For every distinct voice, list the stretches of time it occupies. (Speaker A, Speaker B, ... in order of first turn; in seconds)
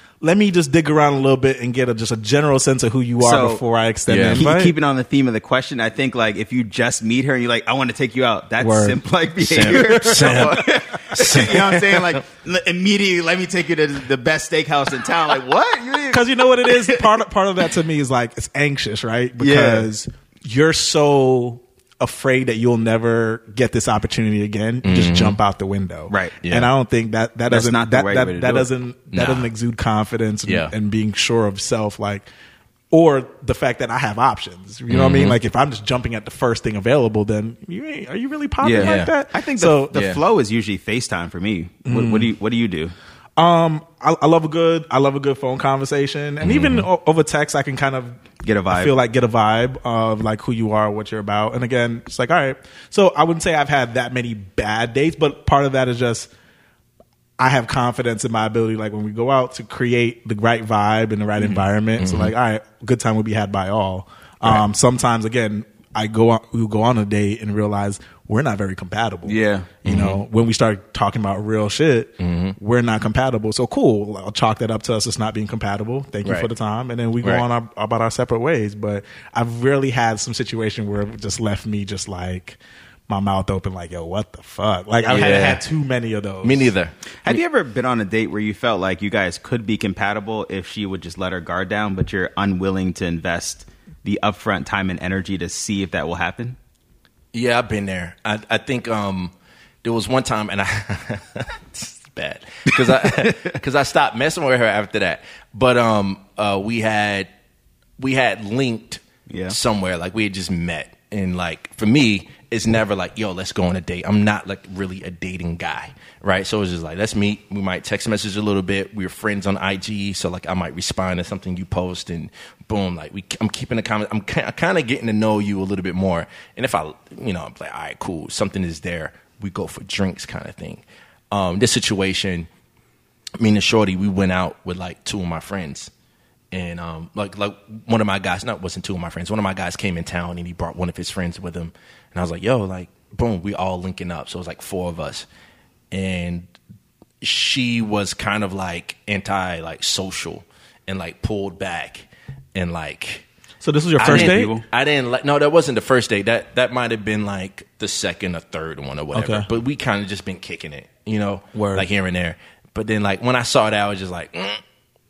Speaker A: 0.2-4.7, 8.6-10.7, 16.1-32.3, 32.9-40.1, 41.9-42.3, 43.4-48.2, 48.7-56.3, 57.4-86.7, 153.6-154.6, 159.1-159.5, 161.5-161.9
Speaker B: 3.2-3.6, 4.3-17.1, 19.4-19.9, 26.1-26.4, 27.5-28.7, 38.6-42.9, 48.4-48.9, 61.4-61.7, 69.2-69.7, 87.2-96.6, 109.3-109.6, 154.0-154.6
Speaker C: 4.1-4.4, 9.4-12.2, 24.8-25.4, 26.4-26.7, 29.1-29.5, 30.4-30.7, 34.9-35.4, 38.7-39.1, 39.9-40.2, 46.4-46.9, 62.0-62.3, 69.8-70.2, 72.2-72.5, 76.2-76.5, 85.1-85.6, 86.4-87.4, 97.3-99.3, 99.8-107.3, 108.0-132.5, 133.4-135.9, 136.5-145.2, 145.9-146.5, 147.2-153.2, 154.0-164.6